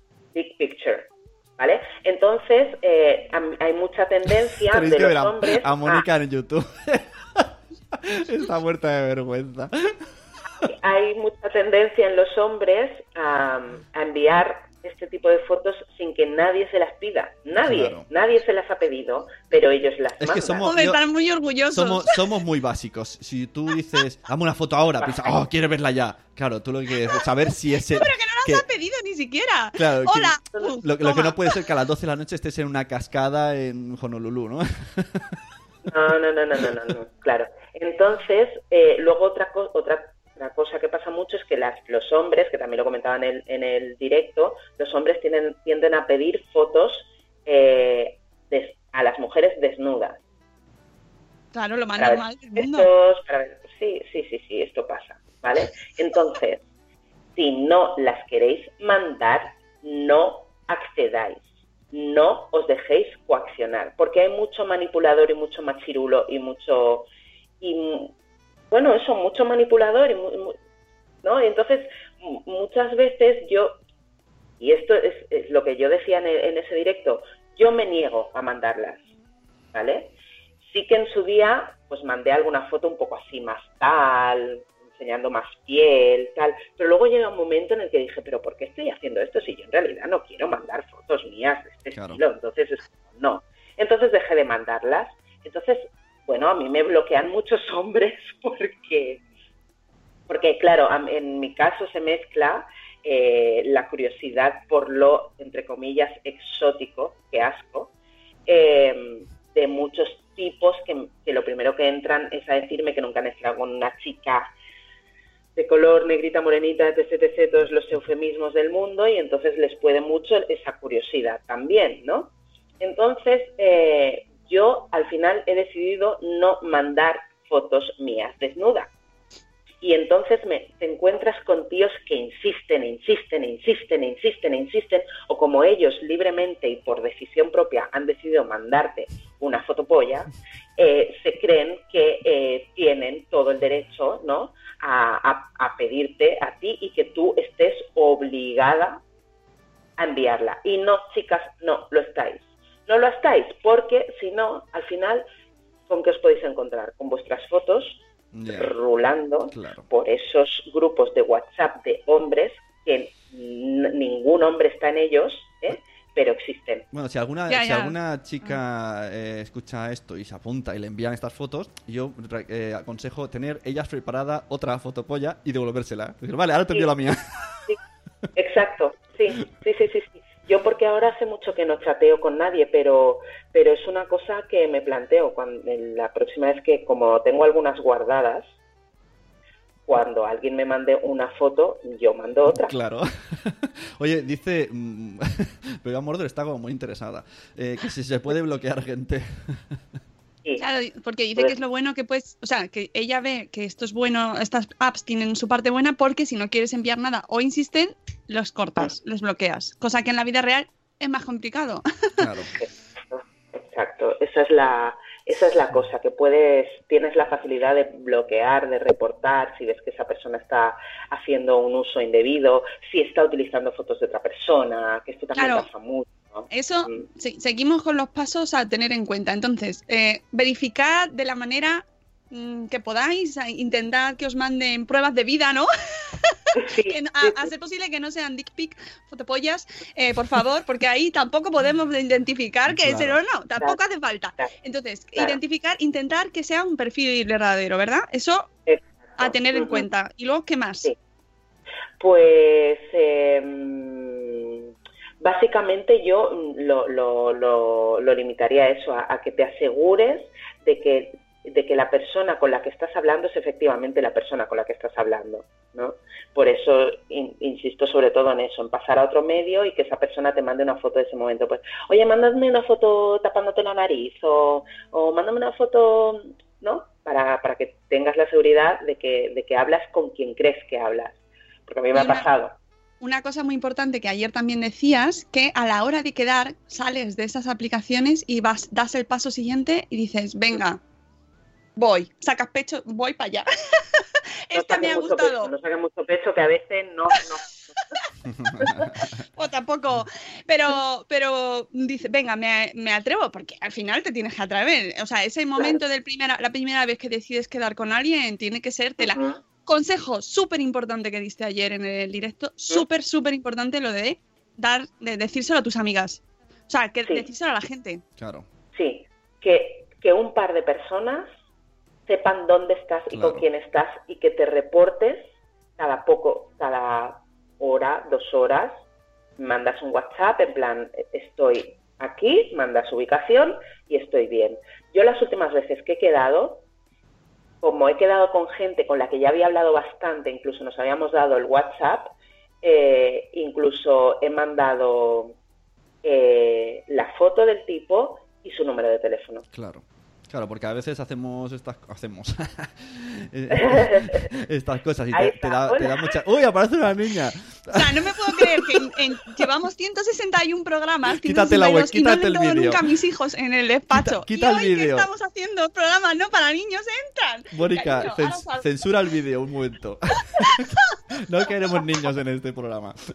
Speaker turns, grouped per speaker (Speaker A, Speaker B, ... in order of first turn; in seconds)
Speaker A: 0.3-6.0, 10.6-20.7, 25.0-25.4, 35.9-50.2, 52.0-56.6, 57.4-67.1, 67.6-68.1, 68.7-70.5, 71.2-73.8, 74.6-79.0, 79.7-80.1, 80.7-99.2, 100.3-107.9, 108.5-114.5, 115.5-128.9, 129.8-149.0, 150.0-155.2, 155.9-166.8, 178.3-188.5, 189.9-192.7, 212.6-227.0, 236.6-237.5, 248.7-249.8, 252.0-254.7, 255.2-282.6, 294.5-297.9, 309.0-309.4, 318.7-321.3, 322.1-328.8, 329.4-336.6, 337.6-345.4, 346.0-349.4, 353.5-354.3, 355.1-355.9
Speaker B: 4.7-9.9, 17.6-18.1, 20.2-21.0, 21.7-28.6, 29.8-35.4, 91.9-92.2, 158.3-158.7, 159.5-159.8, 166.9-177.2, 192.5-199.8, 212.2-212.5, 242.7-243.2, 298.2-299.2, 318.2-318.4, 323.1-323.4, 349.5-358.8, 361.1-362.9, 363.9-365.1, 367.5-373.0
Speaker C: 20.6-22.2, 27.9-31.6, 51.5-52.9, 167.5-168.6, 200.6-212.3, 225.3-225.7, 226.5-248.5, 249.2-250.9, 281.9-282.3, 283.0-290.8, 291.8-295.5, 299.4-309.1, 309.7-318.0, 357.7-368.7